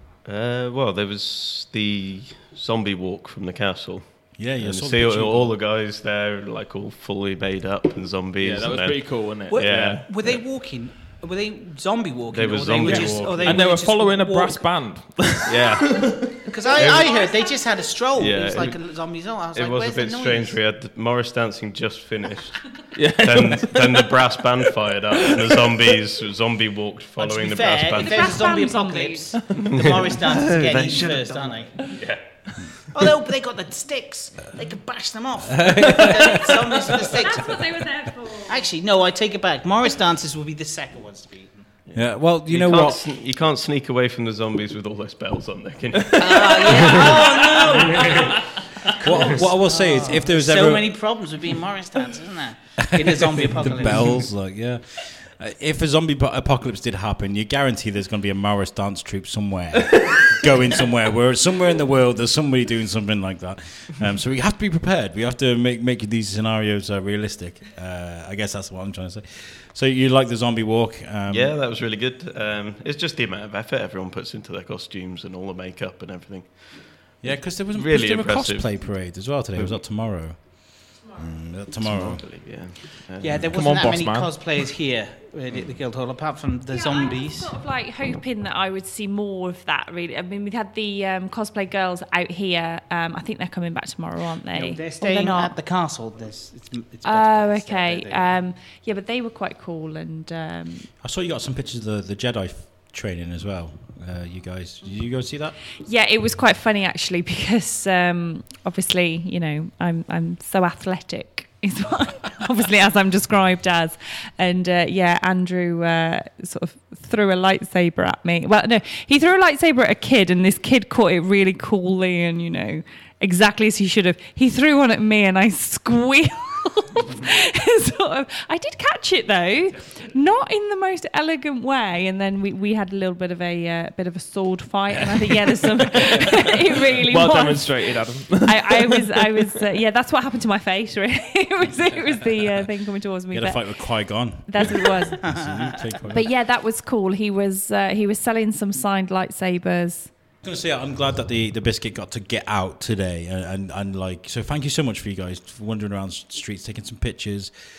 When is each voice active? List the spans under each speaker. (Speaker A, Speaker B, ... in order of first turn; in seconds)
Speaker A: 0.2-10.4, 12.3-13.6, 15.5-17.1, 18.2-18.9, 19.5-28.3, 29.6-32.9, 41.9-48.5, 49.1-49.4, 71.3-78.9, 81.8-83.5
Speaker B: 4.4-5.6, 13.1-13.5, 35.5-36.6, 41.9-43.0, 47.1-48.1, 48.9-51.0, 52.8-71.6, 77.2-82.3, 83.3-83.5, 101.0-105.6, 143.3-146.3, 150.4-157.5
Speaker C: 8.4-10.1, 12.8-16.4, 22.9-24.1, 83.5-84.5, 137.0-139.1
Speaker D: 9.5-14.7, 16.4-20.6, 27.2-31.9, 32.9-37.8, 38.4-41.7, 46.2-54.2, 83.2-87.5, 94.5-98.4, 145.2-146.0
Speaker E: 16.6-17.7, 28.0-29.4, 37.1-38.7, 86.7-95.6, 97.0-100.9, 105.8-145.3, 146.1-150.1